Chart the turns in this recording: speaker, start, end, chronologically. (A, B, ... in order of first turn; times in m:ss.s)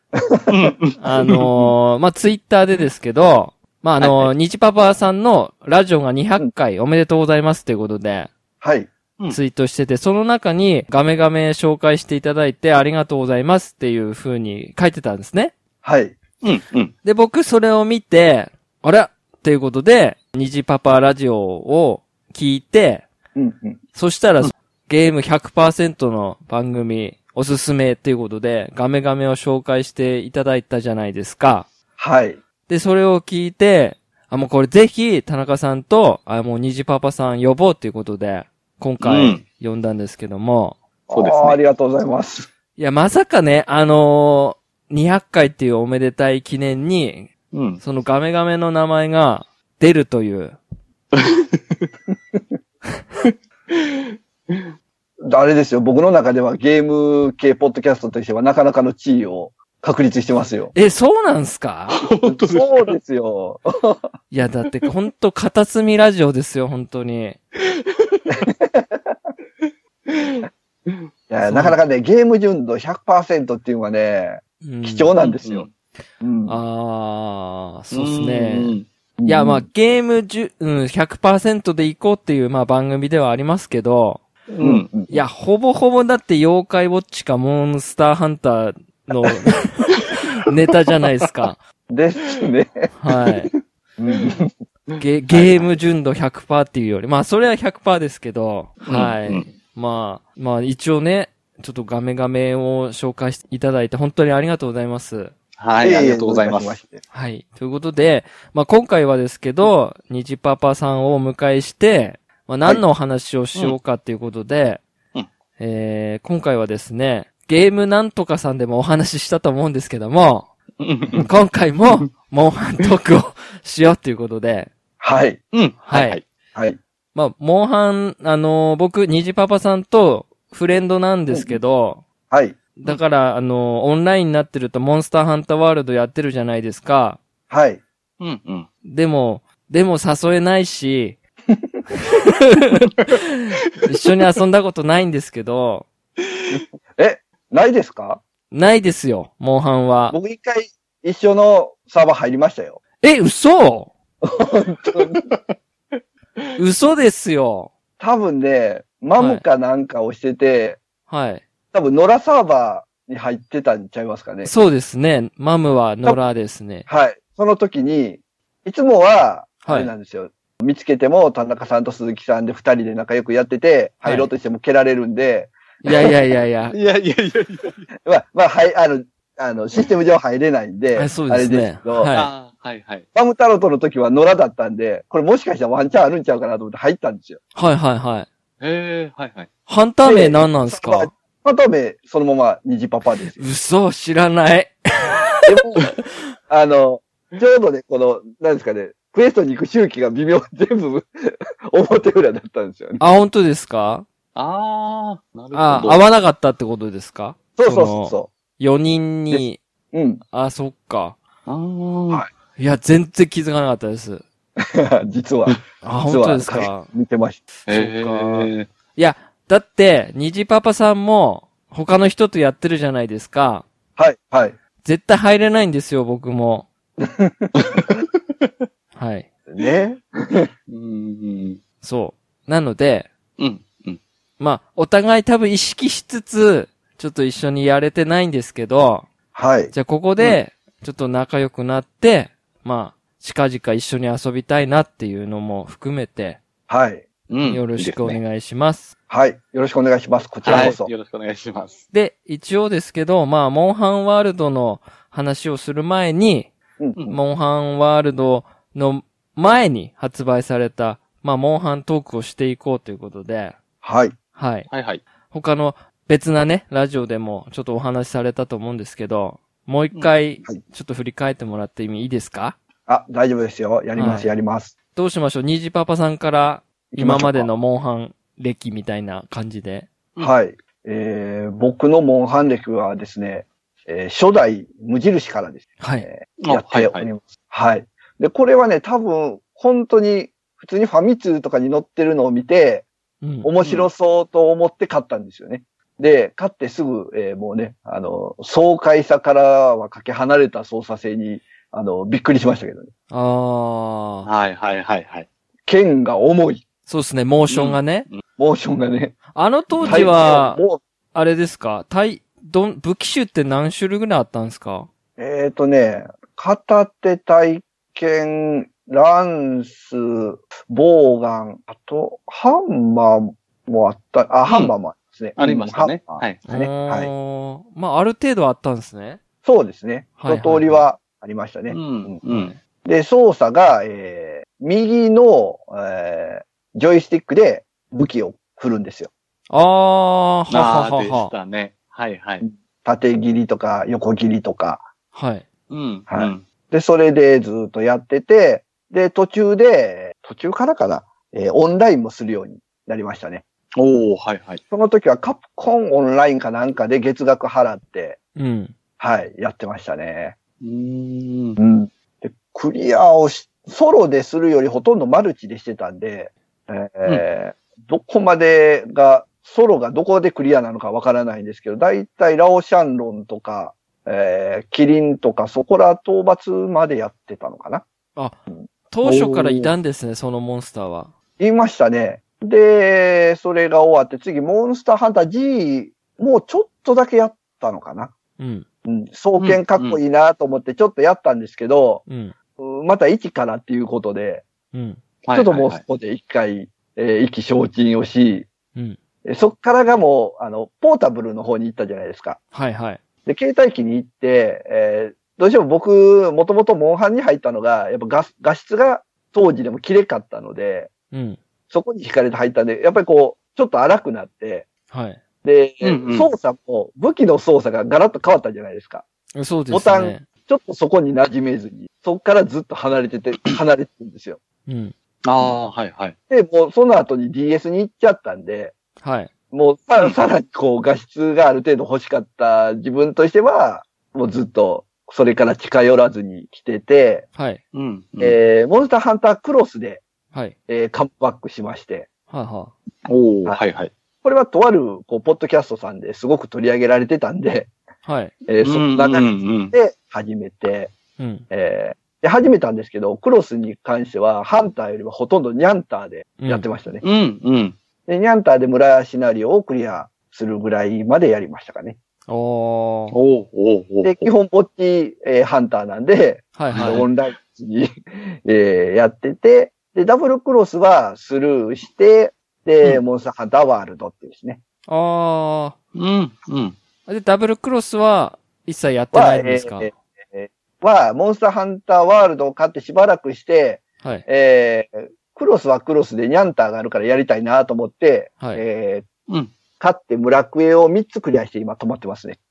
0:00.2-0:00.5 A
0:00.5-0:01.7 B
0:01.0-0:08.3 C
0:04.0-0:04.3 B
0:08.6-0:08.9 A
0:09.3-0:15.5 C
0:15.8-0:16.2 A
0:16.4-0:16.9 B
0:17.0-0:23.1 C
0:23.3-0:23.8 A
0:23.9-0:31.7 C
0:32.0-0:32.4 A
0:32.7-0:40.8 C
0:39.0-0:39.4 B
0:41.1-0:42.5 A
0:41.1-0:41.6 B
0:42.8-0:50.6 C
0:47.5-0:47.8 B
0:51.1-0:51.9 B
0:53.2-0:54.0 B
0:55.3-1:00.7 A
1:00.7-1:02.0 C
1:01.9-1:02.9 B
1:02.2-1:04.0 A
1:04.3-1:07.4 C
1:07.6-1:08.4 B
1:08.4-1:09.2 A
1:10.1-1:11.1 B
1:11.3-1:15.7 A
1:11.4-1:11.8 C
1:14.6-1:15.1 C
1:15.2-1:15.7 B
1:16.2-1:16.6 A
1:16.5-1:24.2 C
1:17.9-1:18.9 B
1:19.2-1:19.6 A
1:24.5-1:24.9 B
1:24.6-1:25.2 A
1:25.1-1:31.6 C
1:31.9-1:32.9 A
1:33.0-1:33.5 C
1:34.0-1:34.5 A
1:34.9-1:35.7 B
1:35.0-1:45.3 C
1:38.8-1:39.5 B
1:45.6-1:46.8 B
1:45.8-1:47.0 A
1:47.1-1:54.8 C
1:55.6-2:00.5 C
2:00.8-2:01.3 B
2:01.2-2:04.7 C
2:05.0-2:05.4 A
2:05.5-2:06.2 B
2:05.9-2:06.2 C
2:07.1-2:12.0 C
2:11.3-2:11.6 A
2:12.3-2:12.6 A
2:12.8-2:17.2 C
2:17.5-2:17.8 A
2:18.2-2:18.7 B
2:18.8-2:21.2 C
2:21.5-2:21.8 A
2:22.0-2:25.9 C
2:26.5-2:28.2 A
2:28.5-2:30.2 C
2:30.1-2:32.8 A
2:33.0-2:33.9 C
2:34.2-2:35.2 A
2:34.9-2:36.0 B
2:36.6-2:37.7 C
2:38.0-2:40.8 A
2:39.2-2:39.4 C
2:41.1-2:41.4 C
2:41.7-2:44.5 A
2:44.4-2:46.9 C
2:46.9-2:56.1 A
2:49.6-2:49.9 C
2:54.0-2:54.3 C
2:55.8-2:56.8 C
2:56.7-2:57.8 B
2:58.0-3:02.1 A
3:00.9-3:02.3 C
3:02.1-3:03.0 B
3:03.1-3:07.4 A
3:07.6-3:08.3 C
3:08.6-3:09.5 B
3:09.7-3:11.1 C
3:10.0-3:13.4 A
3:13.4-3:15.9 C
3:15.5-3:15.9 A
3:16.5-3:23.0 A
3:23.0-3:24.0 C
3:24.3-3:26.0 B
3:25.5-3:29.6 C
3:27.6-3:28.3 A
3:29.3-3:30.2 A
3:30.3-3:31.2 C
3:31.4-3:32.2 B
3:32.6-3:34.2 C
3:34.6-3:37.4 A
3:35.8-3:36.9 C
3:37.6-3:43.6 C
3:37.7-3:38.7 B
3:44.0-3:44.6 A
3:44.8-3:46.7 C
3:47.0-3:47.8 A
3:49.0-3:49.3 C
3:49.5-3:50.5 A
3:50.7-3:51.6 B
3:51.8-3:53.1 C
3:53.4-3:54.0 B
3:54.4-3:59.1 C
3:59.3-3:59.7 A
3:59.7-4:06.4 C
4:06.7-4:07.0 A
4:07.3-4:08.2 B
4:07.4-4:08.9 C
4:09.1-4:10.9 A
4:10.4-4:11.8 B
4:10.5-4:10.8 C
4:11.9-4:16.5 C
4:17.1-4:23.6 C
4:23.8-4:24.1 A
4:24.4-4:24.7 C
4:24.7-4:25.0 B
4:25.3-4:32.6 C
4:32.9-4:34.7 A
4:34.0-4:34.3 C
4:34.9-4:39.9 C
4:36.9-4:37.5 A
4:40.2-4:52.8 A
4:45.8-4:46.1 C
4:46.4-4:47.1 B
4:53.2-4:53.5 C
4:53.4-5:02.9 A
4:53.6-4:53.9 B
5:03.1-5:04.3 C
5:04.2-5:05.3 B
5:05.7-5:06.6 A
5:06.9-5:08.1 C
5:07.5-5:08.2 B
5:08.4-5:09.2 A
5:09.3-5:10.6 C
5:09.7-5:10.1 B
5:09.8-5:10.8 A
5:11.1-5:14.9 C
5:15.2-5:27.1 A
5:24.5-5:24.7 B
5:25.4-5:26.4 B
5:26.5-5:29.2 C
5:29.4-5:32.2 A
5:30.2-5:30.8 C
5:31.7-5:32.5 B
5:32.2-5:32.6 C
5:32.8-5:39.1 A
5:39.5-5:41.3 C
5:40.5-5:42.4 B
5:42.4-5:44.8 A
5:45.1-5:45.4 C
5:45.7-5:46.4 B
5:46.1-5:53.4 A
5:53.8-5:54.6 B
5:54.7-5:58.2 A
5:58.4-5:58.7 C
5:59.0-6:00.4 A
6:00.6-6:01.6 B
6:01.6-6:17.8 A
6:18.5-6:19.7 A
6:18.9-6:21.1 C
6:21.4-6:28.1 A
6:28.4-6:28.6 C
6:28.8-6:32.0 A
6:29.4-6:30.0 B
6:32.1-6:32.3 C
6:32.6-6:34.4 A
6:34.7-6:35.0 C
6:35.2-6:35.8 B
6:35.3-6:38.5 A
6:39.2-6:42.4 A
6:42.5-6:43.0 C
6:43.2-6:50.9 A
6:51.1-6:51.4 C
6:51.7-6:54.6 A
6:54.9-6:55.2 C
6:55.4-6:59.0 A
6:55.8-6:56.3 B
6:59.3-7:00.2 C
6:59.7-7:04.4 A
7:04.7-7:04.9 C
7:05.2-7:06.1 B
7:06.3-7:08.7 A
7:09.0-7:09.3 C
7:09.5-7:17.3 A
7:17.3-7:17.6 C
7:17.7-7:18.4 B
7:18.2-7:20.0 A
7:20.7-7:22.1 A
7:22.3-7:22.7 C
7:23.0-7:23.9 B
7:24.2-7:27.7 A
7:28.0-7:28.3 C
7:28.5-7:30.9 A
7:28.6-7:29.7 B
7:31.2-7:31.4 C
7:31.5-7:37.0 A
7:36.4-7:36.6 C
7:37.0-7:37.8 B
7:38.1-7:42.0 A
7:42.3-7:43.2 C
7:43.1-7:44.3 B
7:44.0-7:54.6 A
7:46.6-7:47.0 C
7:46.7-7:47.1 B
7:54.9-7:55.7 C
7:55.9-7:56.8 B
7:57.1-7:59.9 C
7:59.1-8:09.1 A
8:09.8-8:12.4 A